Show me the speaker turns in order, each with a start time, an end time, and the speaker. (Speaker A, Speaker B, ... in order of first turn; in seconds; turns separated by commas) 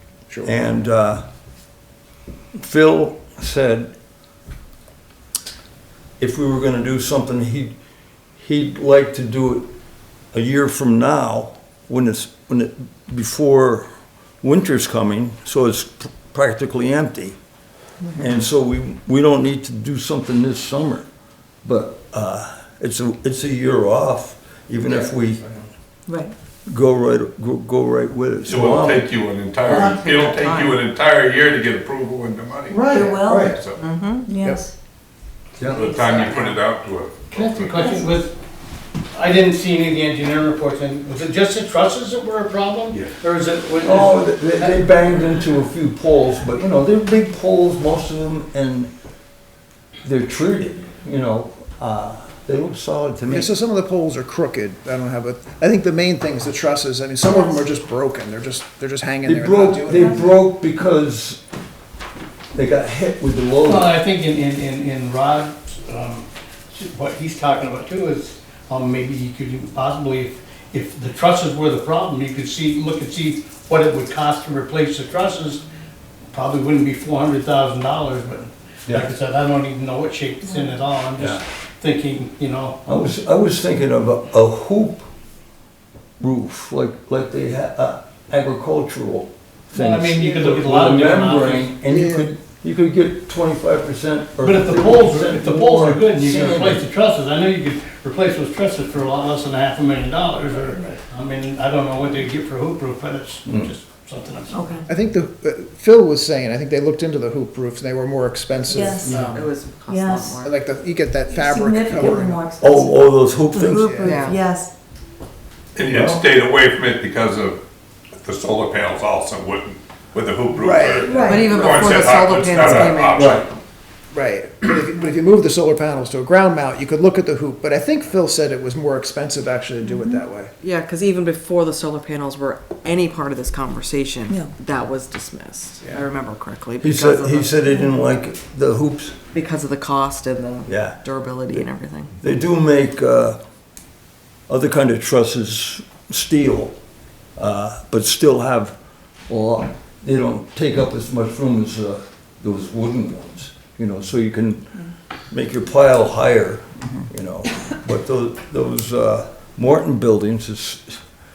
Speaker A: 0.3-0.8, Speaker B: 0.4-1.2, Speaker B: 2.5-3.9, Speaker B: 6.2-7.7, Speaker B: 8.4-9.7, Speaker B: 10.3-13.9, Speaker B: 14.4-17.4, Speaker C: 18.0-18.3, Speaker B: 18.2-21.1, Speaker B: 21.6-25.4, Speaker C: 26.1-26.3, Speaker B: 26.7-29.1, Speaker D: 28.4-33.8, Speaker B: 29.7-29.9, Speaker E: 29.7-30.8, Speaker A: 32.7-33.6, Speaker C: 32.9-33.5, Speaker B: 33.0-33.6, Speaker E: 33.8-34.3, Speaker C: 34.3-34.7, Speaker D: 35.6-38.0, Speaker E: 35.8-36.6, Speaker F: 37.3-38.3, Speaker C: 37.8-38.1, Speaker F: 39.1-45.0, Speaker B: 43.8-48.9, Speaker B: 50.0-53.5, Speaker A: 53.3-60.3, Speaker C: 57.2-57.6, Speaker B: 59.2-61.4, Speaker C: 59.9-60.4, Speaker B: 62.5-63.9, Speaker F: 63.6-75.6, Speaker F: 76.3-82.8, Speaker C: 80.5-80.8, Speaker B: 81.2-81.4, Speaker B: 82.9-85.1, Speaker B: 86.2-96.8, Speaker F: 89.7-91.7, Speaker A: 91.9-92.3, Speaker F: 94.4-104.7, Speaker B: 103.5-103.7, Speaker C: 104.5-104.9, Speaker A: 104.9-109.5, Speaker C: 108.7-109.2, Speaker F: 109.0-109.3, Speaker E: 109.1-110.5, Speaker C: 109.9-110.4, Speaker A: 110.4-112.4, Speaker C: 111.3-114.7, Speaker B: 112.6-114.1, Speaker A: 113.7-114.4, Speaker E: 114.0-114.4, Speaker D: 115.8-117.6, Speaker B: 115.8-116.2, Speaker D: 118.2-123.4, Speaker A: 120.6-122.1, Speaker C: 121.0-121.5, Speaker E: 121.1-123.6, Speaker B: 122.7-123.5, Speaker A: 124.1-130.5, Speaker C: 129.8-130.2, Speaker E: 130.6-137.7, Speaker C: 134.3-134.5, Speaker B: 136.8-139.2, Speaker E: 139.3-142.1, Speaker B: 140.7-141.0, Speaker B: 142.2-143.4, Speaker B: 144.5-146.8, Speaker B: 147.4-148.8, Speaker B: 149.3-161.0